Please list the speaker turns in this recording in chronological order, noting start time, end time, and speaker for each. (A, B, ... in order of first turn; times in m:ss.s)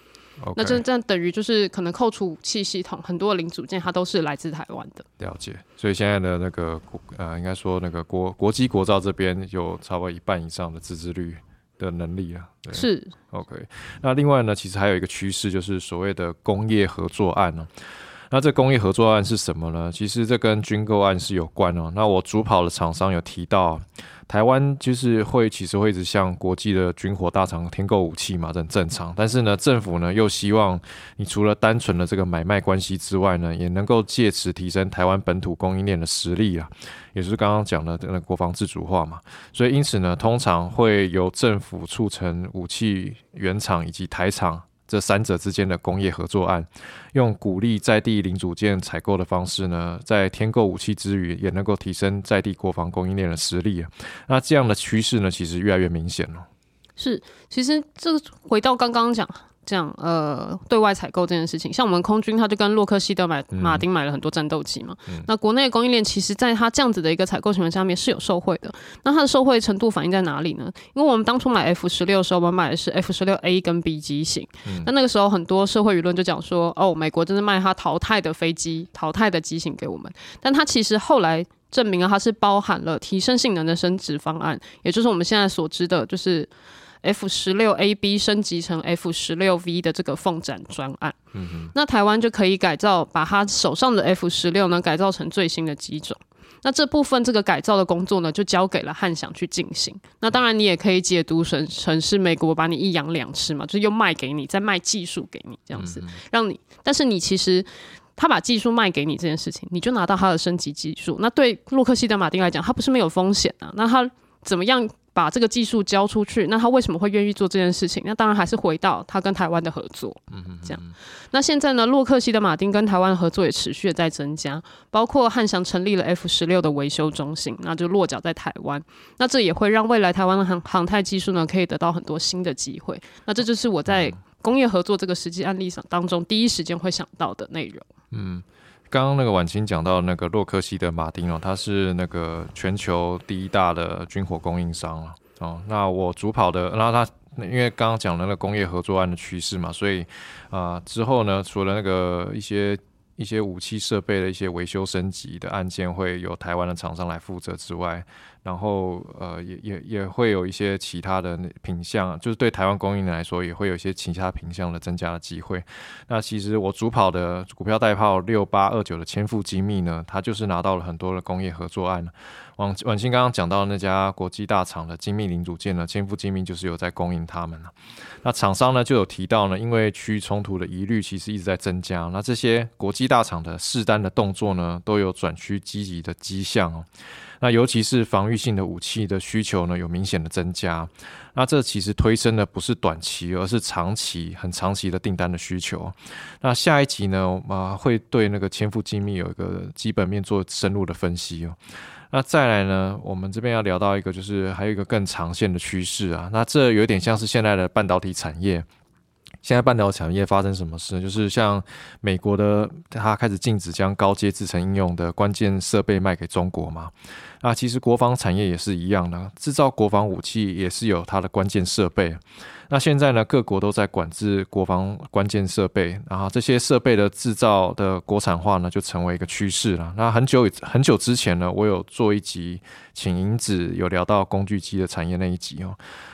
0:00.4-0:00.8 A
0:00.6-0:05.1 B
0:05.2-0:17.7 A
0:12.7-0:13.2 B
0:18.3-0:56.5 A
0:57.0-1:26.5 B
1:03.5-1:03.9 A
1:14.6-1:14.9 A
1:27.0-1:31.2 B
1:31.3-1:31.7 A
1:31.7-2:17.9 B
1:45.8-1:46.2 A
2:00.3-2:01.0 A
2:13.9-2:14.2 A
2:18.1-2:57.7 A
2:58.2-3:06.9 A
3:07.4-3:21.6 A
3:22.1-3:28.7 A
3:29.4-3:55.8 A